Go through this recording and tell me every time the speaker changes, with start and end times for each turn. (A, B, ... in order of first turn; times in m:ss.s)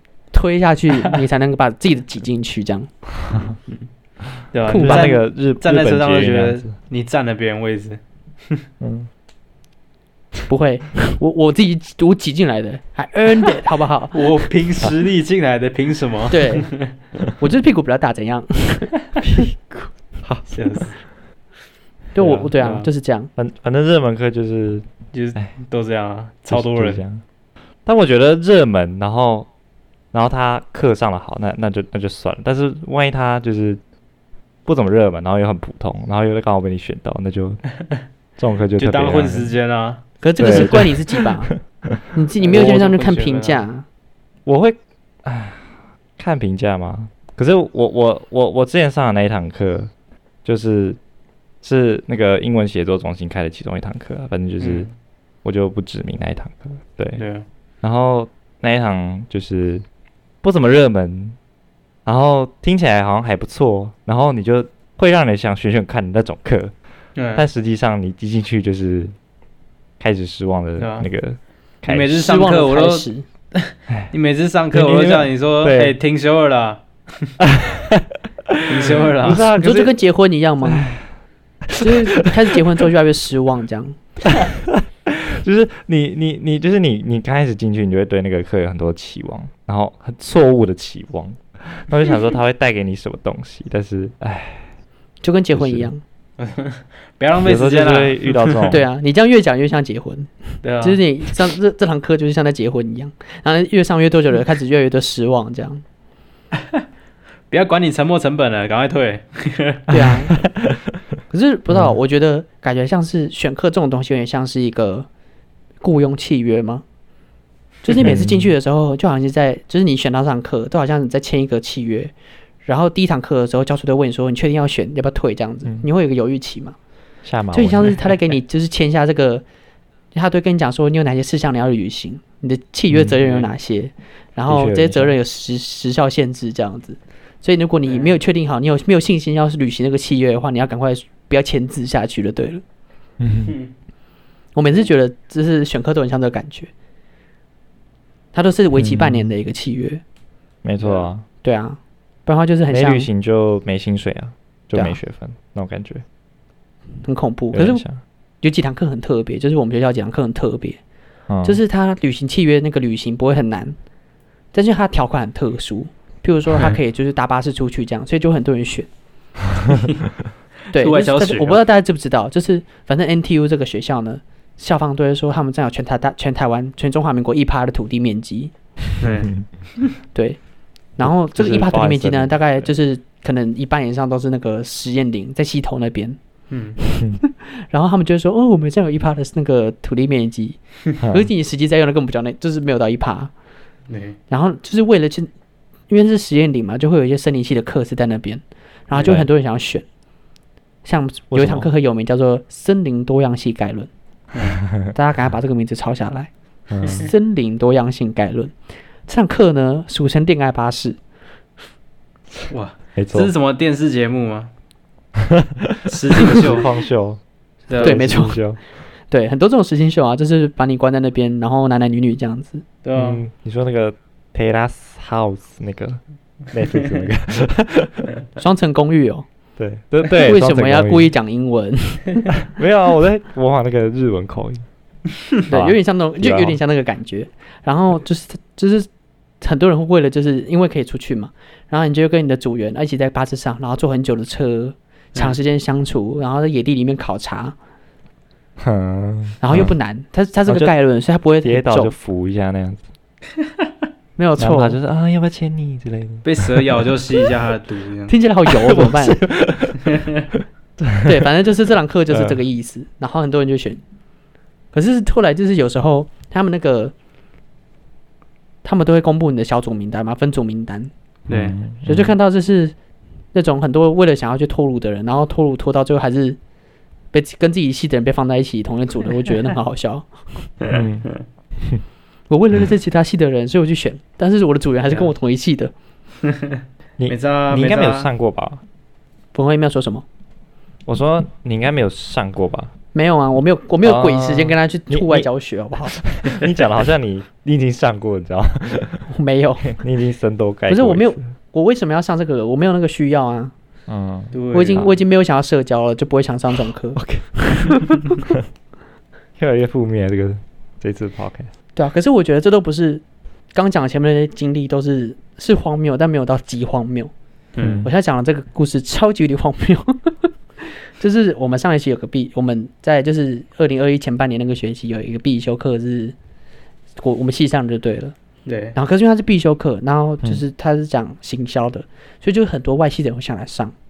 0:00.3-0:02.9 A
0:03.2-0:03.5 B
0:04.5-0:08.6 C
0:04.6-0:05.1 A
0:04.7-0:06.7 B
0:08.8-0:09.1 B
0:10.5-0:14.4 A
0:14.1-0:16.9 C
0:16.3-0:16.7 A
0:17.4-0:19.0 A
0:20.2-0:20.5 B
0:20.5-0:21.0 C
0:22.1-0:23.3 A
0:22.2-0:22.5 B
0:22.6-0:22.9 C
0:23.4-0:25.5 B
0:25.1-0:27.0 C
0:26.5-0:27.2 B
0:27.8-0:29.5 B
0:30.1-0:33.8 B
0:34.6-0:37.6 B
0:38.4-0:39.5 B
0:38.8-0:40.7 C
0:40.2-0:41.5 A
0:40.4-0:42.0 B
0:42.1-0:43.8 A
0:42.4-0:43.6 C
0:42.5-0:42.8 B
0:44.4-0:49.9 B
0:50.4-0:51.0 B
0:51.6-0:54.9 B
0:54.6-0:54.9 C
0:55.4-0:57.2 B
0:57.2-0:57.4 C
0:57.8-0:59.8 B
1:00.4-1:01.4 B
1:02.0-1:06.7 B
1:07.2-1:07.4 C
1:07.3-1:09.1 B
1:10.0-1:12.2 B
1:10.8-1:11.1 C
1:11.9-1:17.3 C
1:12.2-1:13.2 A
1:14.7-1:15.9 B
1:17.4-1:20.0 B
1:18.7-1:19.5 C
1:19.5-1:20.8 A
1:20.6-1:21.1 B
1:21.7-1:22.3 B
1:21.8-1:24.0 A
1:24.4-1:34.7 B
1:35.2-1:36.0 A
1:35.5-1:35.9 B
1:36.4-1:38.7 C
1:37.4-1:38.8 B
1:38.7-1:45.8 A
1:40.6-1:41.0 C
1:47.5-1:49.9 C
1:49.9-1:50.3 A
1:49.9-1:50.8 B
1:51.3-1:55.1 A
1:55.8-1:56.8 A
1:57.8-2:02.1 A
1:58.0-1:58.5 B
2:02.6-2:06.8 A
2:07.2-2:08.0 B
2:07.5-2:09.4 A
2:10.1-2:22.6 A
2:12.9-2:13.2 B
2:13.2-2:13.5 C
2:14.4-2:15.1 B
2:17.8-2:18.1 C
2:23.2-2:23.6 B
2:23.4-2:23.7 C
2:24.5-2:26.7 A
2:28.3-2:30.0 A
2:28.7-2:29.3 B
2:30.6-2:31.2 B
2:30.8-2:31.1 C
2:31.4-2:33.1 A
2:32.7-2:36.0 B
2:37.0-2:37.8 A
2:37.5-2:38.0 B
2:38.4-2:40.8 A
2:41.3-2:41.6 B
2:41.4-2:43.8 A
2:44.5-2:48.9 A
2:50.7-2:58.5 A
2:50.8-2:51.6 C
2:59.0-2:59.9 C
3:00.1-3:00.4 A
3:01.0-3:06.2 A
3:01.0-3:02.7 B
3:06.5-3:06.8 C
3:06.9-3:13.3 A
3:11.0-3:11.3 B
3:13.9-3:14.2 C
3:14.3-3:15.3 A
3:15.9-3:19.8 A
3:20.8-3:23.9 A
3:21.3-3:21.7 B
3:24.3-3:24.6 C
3:24.9-3:26.3 A
3:26.7-3:27.1 B
3:26.8-3:28.5 A
3:29.1-3:31.0 A
3:32.5-3:34.5 C
3:33.0-3:33.3 B
3:35.2-3:37.2 B
3:35.9-3:36.7 C
3:37.7-3:38.0 C
3:37.7-3:38.6 B
3:37.8-3:38.4 A
3:39.1-3:42.6 A
3:42.8-3:43.2 C
3:42.9-3:46.0 B
3:46.5-3:48.1 B
3:48.4-3:49.2 A
3:49.6-3:51.1 B
3:50.0-3:52.2 A
3:52.4-3:54.6 B
3:55.5-3:58.9 A
3:55.5-3:56.6 B
3:59.4-4:07.5 A
4:08.6-4:09.7 B
4:09.4-4:11.9 A
4:10.5-4:10.7 B
4:11.4-4:12.8 B
4:14.2-4:14.8 A
4:14.4-4:17.3 B
4:16.2-4:18.1 C
4:18.1-4:19.2 A
4:18.5-4:20.0 B
4:19.8-4:20.2 C
4:20.8-4:21.2 B
4:21.0-4:23.8 A
4:22.1-4:22.4 B
4:24.7-4:26.9 A
4:28.6-4:30.9 A
4:31.3-4:32.1 B
4:31.3-4:31.6 C
4:31.8-4:32.7 A
4:33.3-4:36.4 A
4:37.1-4:40.5 A
4:40.7-4:41.1 B
4:42.3-4:45.7 A
4:46.3-4:48.1 C
4:47.0-4:48.6 B
4:49.3-4:50.0 A
4:50.8-4:52.7 B
4:52.9-4:56.0 A
4:53.8-4:55.3 B
4:55.8-4:59.1 B
4:59.1-4:59.8 A
4:59.7-5:01.2 B
5:00.7-5:03.5 A
5:03.9-5:04.9 B
5:04.3-5:04.8 C
5:04.5-5:08.0 A
5:07.0-5:08.0 B
5:09.4-5:11.5 B
5:11.8-5:13.0 A
5:13.5-5:17.1 A
5:17.6-5:17.8 C
5:17.6-5:17.9 B
5:17.8-5:26.1 A
5:27.0-5:28.1 A
5:28.4-5:28.8 C
5:28.7-5:33.7 A